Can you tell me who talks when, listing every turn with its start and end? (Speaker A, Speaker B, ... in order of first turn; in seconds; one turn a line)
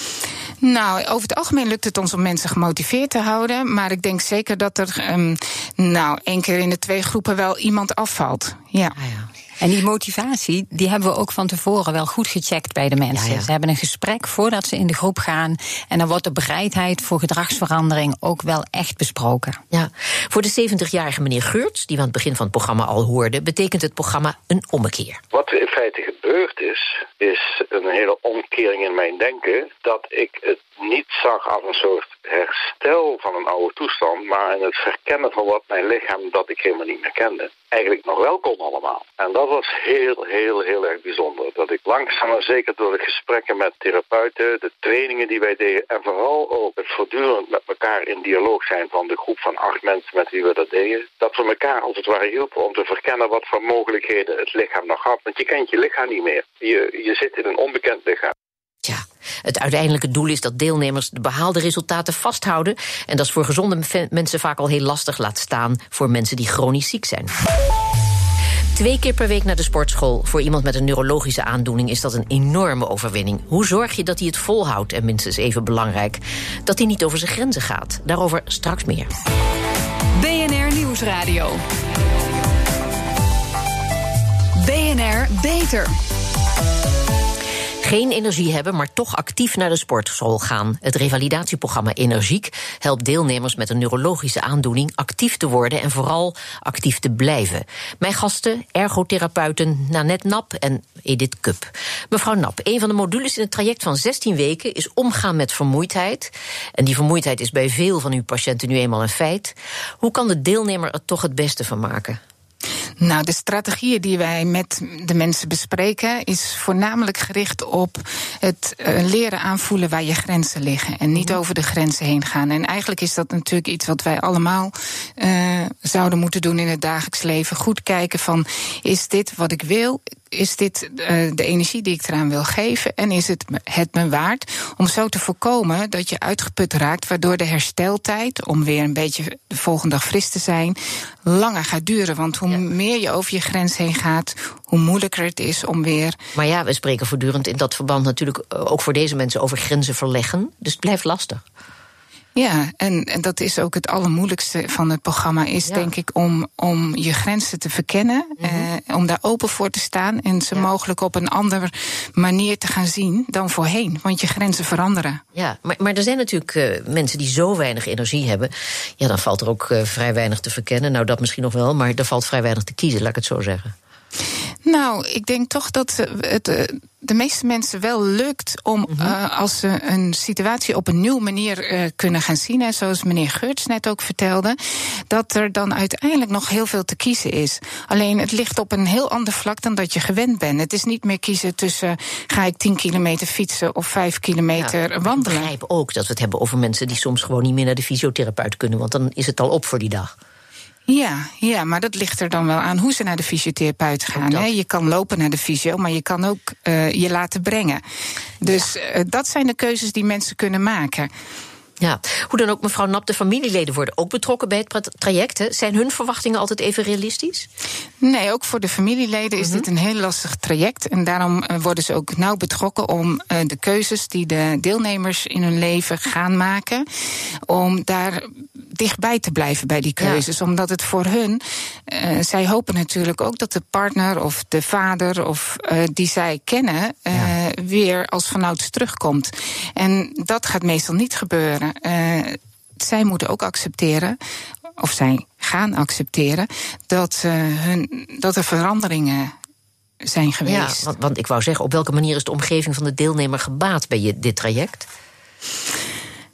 Speaker A: 0.6-9.0
Speaker B: 9.0-9.3
Speaker C: 9.6-19.6
Speaker B: 13.1-13.5
Speaker B: 19.7-25.2
Speaker D: 25.3-58.3
Speaker B: 58.8-67.4
Speaker B: 68.7-79.1
Speaker E: 80.2-81.6
Speaker E: 84.6-85.9
Speaker B: 87.8-112.2
Speaker A: 113.0-146.2
Speaker B: 121.1-121.4
Speaker B: 146.3-151.4
Speaker A: 152.3-165.2
Speaker B: 158.4-158.7
Speaker B: 165.3-173.7
Speaker A: 174.6-184.6
Speaker B: 178.9-179.1
Speaker A: 185.1-195.5
Speaker B: 194.6-200.1
Speaker A: 200.9-207.8
Speaker B: 204.1-204.5
Speaker A: 208.4-211.1
Speaker B: 208.4-208.7
Speaker B: 211.8-217.5
Speaker A: 218.0-226.8
Speaker B: 219.4-219.7
Speaker A: 227.5-244.2
Speaker B: 230.0-230.2
Speaker A: 244.8-249.3
Speaker A: 250.0-250.8
Speaker B: 250.4-254.9